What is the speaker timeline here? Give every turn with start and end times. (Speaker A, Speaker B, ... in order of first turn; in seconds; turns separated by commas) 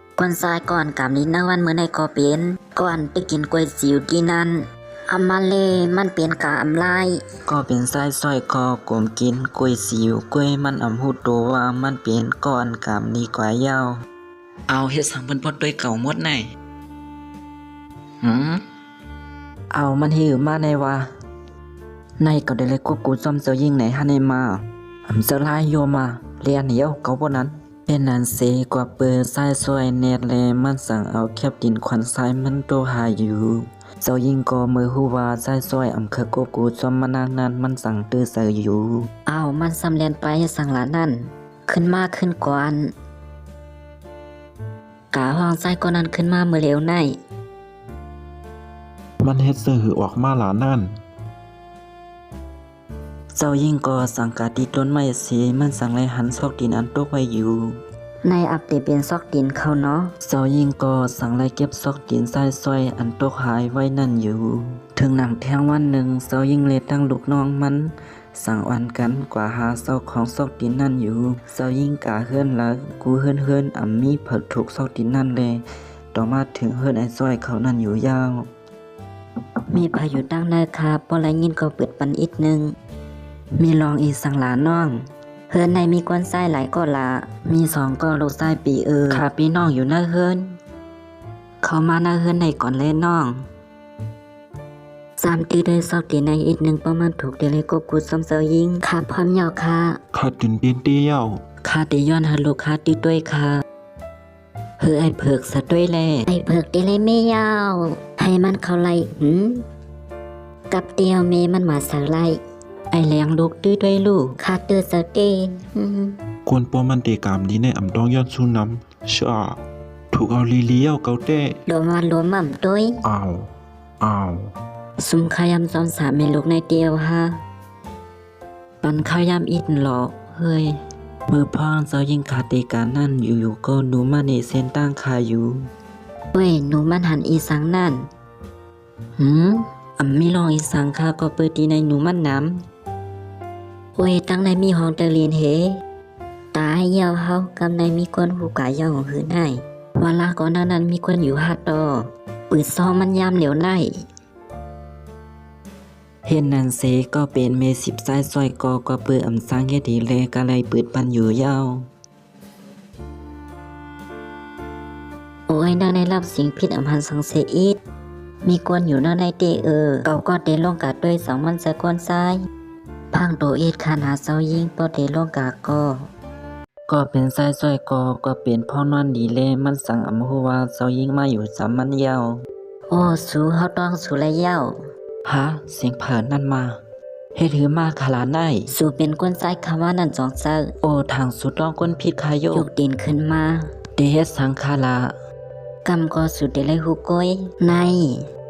Speaker A: 0.2-7.2, Speaker B: 7.5-14.0, Speaker B: 14.7-16.5, Speaker B: 18.2-18.6, Speaker B: 19.7-21.1, Speaker B: 22.2-39.1, Speaker A: 39.3-42.9, Speaker A: 45.1-47.2, Speaker C: 49.2-50.9, Speaker B: 53.3-57.7, Speaker A: 58.2-60.1, Speaker B: 60.2-75.6, Speaker B: 76.1-78.5, Speaker A: 79.8-82.7, Speaker B: 79.8-80.9, Speaker B: 83.6-85.0, Speaker A: 85.5-87.3, Speaker B: 87.3-90.5, Speaker B: 91.6-93.4, Speaker A: 95.2-100.0, Speaker C: 100.1-101.4, Speaker B: 101.6-103.6, Speaker B: 104.8-106.3, Speaker A: 106.3-109.6, Speaker A: 110.7-112.4, Speaker B: 112.9-114.4, Speaker A: 114.4-116.2, Speaker C: 116.5-119.6, Speaker C: 120.1-121.5, Speaker A: 121.7-122.9, Speaker C: 123.0-123.5, Speaker C: 124.0-124.5, Speaker A: 125.0-127.3, Speaker B: 128.8-130.8, Speaker B: 131.3-135.6, Speaker A: 136.3-138.1, Speaker B: 139.2-142.6, Speaker A: 144.0-145.8, Speaker A: 146.5-153.9, Speaker B: 156.2-161.8, Speaker A: 165.5-167.8, Speaker A: 168.4-172.4, Speaker A: 173.1-176.1, Speaker B: 176.9-182.4, Speaker A: 182.9-184.8, Speaker B: 185.2-186.8, Speaker B: 187.3-188.7, Speaker A: 188.7-190.7, Speaker B: 190.8-192.7, Speaker A: 192.5-193.7, Speaker B: 194.0-195.1, Speaker A: 195.8-198.2